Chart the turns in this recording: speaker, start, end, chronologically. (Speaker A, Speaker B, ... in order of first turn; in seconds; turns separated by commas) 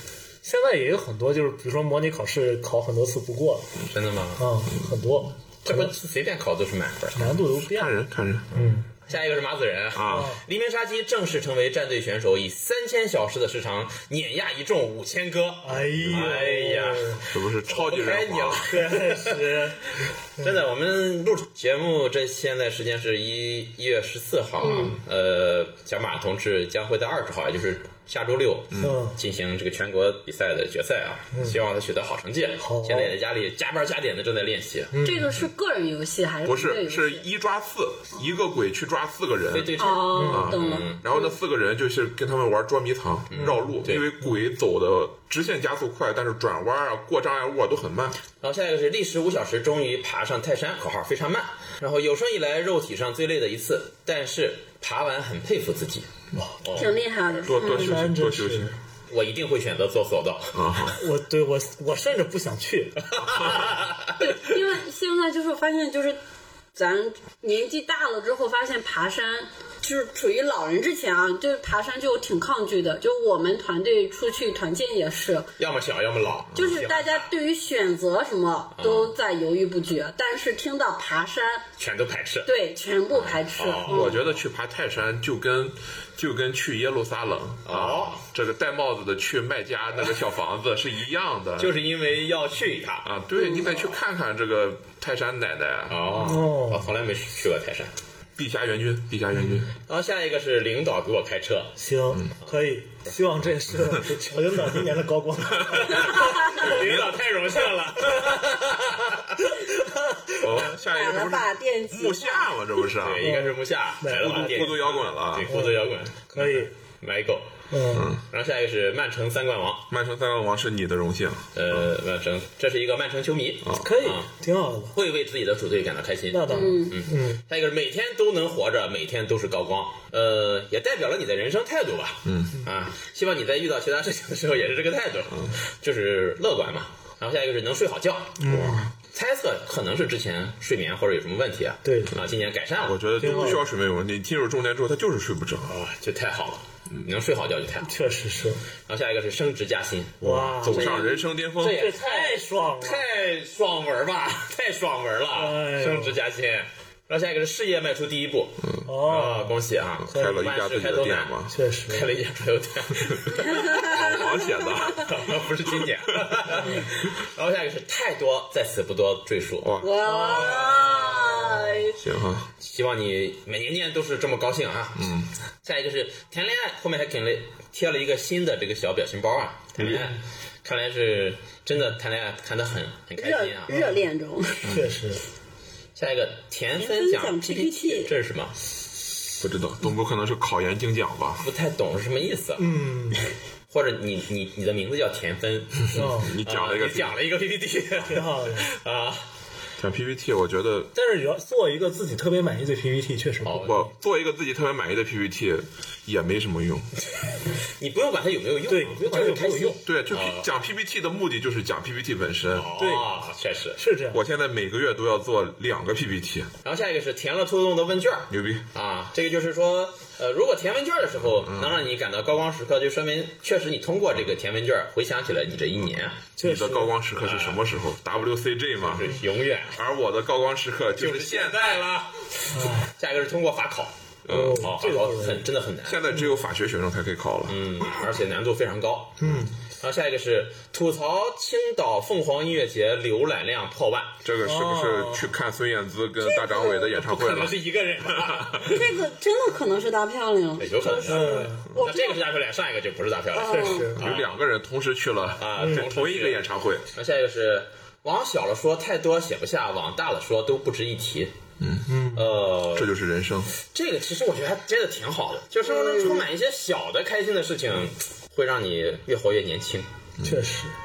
Speaker A: 0.4-3.8, Speaker B: 3.9-4.5, Speaker A: 4.4-6.0, Speaker B: 5.6-7.4, Speaker A: 7.2-8.0, Speaker C: 7.5-8.6, Speaker A: 8.5-8.9, Speaker B: 9.0-34.9, Speaker C: 9.9-10.3, Speaker A: 10.1-10.4, Speaker A: 15.6-17.2, Speaker C: 16.0-16.5, Speaker C: 17.3-18.8, Speaker A: 18.6-20.5, Speaker D: 24.6-25.0, Speaker C: 28.7-29.0, Speaker A: 28.8-29.1, Speaker A: 31.3-31.6, Speaker A: 32.6-33.1, Speaker A: 34.9-35.4, Speaker D: 35.0-37.2, Speaker C: 36.4-48.2, Speaker B: 39.5-41.0, Speaker D: 39.8-41.3, Speaker A: 40.1-40.5, Speaker B: 43.3-44.1, Speaker A: 43.3-43.7, Speaker B: 48.4-56.1, Speaker B: 56.6-57.0, Speaker D: 56.7-58.0, Speaker C: 57.4-58.7, Speaker A: 57.6-58.8, Speaker B: 59.1-61.0, Speaker C: 60.5-61.0, Speaker A: 61.0-63.2, Speaker B: 63.1-64.2, Speaker D: 64.2-66.2, Speaker D: 66.8-75.5, Speaker B: 75.6-77.3, Speaker D: 76.5-81.7, Speaker B: 78.7-79.1, Speaker B: 81.8-82.5, Speaker D: 82.5-84.2, Speaker B: 83.1-84.3, Speaker C: 83.9-91.7, Speaker B: 87.6-88.2, Speaker B: 91.6-93.1, Speaker C: 93.0-96.0, Speaker B: 95.9-97.9, Speaker A: 96.2-96.9, Speaker C: 98.3-99.7, Speaker B: 99.7-101.8, Speaker A: 101.8-107.1, Speaker C: 105.7-107.0, Speaker B: 105.7-109.5, Speaker A: 108.1-108.4, Speaker A: 109.5-110.7, Speaker C: 110.3-113.3, Speaker D: 110.7-112.7, Speaker B: 113.0-117.5, Speaker A: 113.2-114.9, Speaker C: 114.1-115.5, Speaker A: 115.5-116.7, Speaker A: 117.7-118.1, Speaker C: 117.9-118.2, Speaker B: 118.2-119.9, Speaker C: 119.9-121.5, Speaker B: 121.5-124.3, Speaker C: 123.6-123.9, Speaker A: 123.8-124.9, Speaker B: 124.9-138.4, Speaker A: 126.3-127.4, Speaker D: 126.5-127.0, Speaker C: 132.2-132.6, Speaker A: 138.4-138.9, Speaker C: 138.4-138.9, Speaker B: 139.0-143.5, Speaker A: 141.8-142.2, Speaker C: 142.8-145.7, Speaker A: 143.2-143.7, Speaker B: 145.7-147.9, Speaker A: 147.8-148.6, Speaker B: 148.9-161.3, Speaker C: 150.2-151.9, Speaker A: 150.2-151.0, Speaker A: 151.6-153.0, Speaker A: 155.3-156.2, Speaker C: 158.6-158.9, Speaker A: 158.8-160.5, Speaker C: 160.0-161.5, Speaker A: 161.5-162.1, Speaker B: 161.9-164.2, Speaker D: 163.7-164.0, Speaker C: 163.8-165.5, Speaker B: 164.9-171.6, Speaker C: 169.6-171.2, Speaker D: 169.8-172.0, Speaker A: 170.1-170.7, Speaker C: 171.8-172.5, Speaker B: 172.6-183.8, Speaker C: 175.0-175.3, Speaker C: 179.8-180.0, Speaker D: 183.2-184.8, Speaker A: 183.7-184.0, Speaker A: 184.6-185.2, Speaker B: 185.9-188.5, Speaker D: 186.8-188.1, Speaker C: 189.4-191.4, Speaker B: 191.4-192.7, Speaker A: 192.6-193.2, Speaker B: 193.7-199.3, Speaker A: 195.9-196.3, Speaker C: 195.9-197.2, Speaker A: 198.1-198.7, Speaker C: 199.8-200.9, Speaker A: 200.9-203.9, Speaker B: 203.4-203.7, Speaker C: 203.6-206.9, Speaker B: 207.1-210.5, Speaker A: 208.7-209.8, Speaker C: 209.8-212.7, Speaker B: 212.5-213.8, Speaker A: 212.7-213.1, Speaker A: 213.8-214.2, Speaker C: 214.1-216.5, Speaker B: 216.6-226.4, Speaker C: 218.3-218.7, Speaker C: 221.4-221.8, Speaker A: 226.4-226.9, Speaker C: 226.4-229.2, Speaker B: 227.1-227.6, Speaker B: 228.8-229.8, Speaker C: 229.7-231.8, Speaker B: 231.0-236.0, Speaker A: 232.5-232.9, Speaker A: 234.3-235.5, Speaker C: 235.8-238.0, Speaker B: 237.5-239.2, Speaker A: 239.2-239.5, Speaker C: 239.2-239.5, Speaker B: 239.8-244.2, Speaker C: 244.2-248.6, Speaker A: 244.4-245.3, Speaker D: 246.2-246.9, Speaker B: 246.8-248.9, Speaker D: 248.6-252.2, Speaker B: 250.6-254.3, Speaker A: 251.1-251.7, Speaker D: 253.3-253.9, Speaker A: 253.3-254.1, Speaker C: 254.0-256.9, Speaker B: 255.4-261.3, Speaker A: 255.6-255.8, Speaker C: 261.6-261.9, Speaker A: 261.9-262.3, Speaker B: 262.1-262.9, Speaker C: 262.6-263.5, Speaker B: 263.6-269.9, Speaker D: 265.8-266.2, Speaker A: 270.2-270.7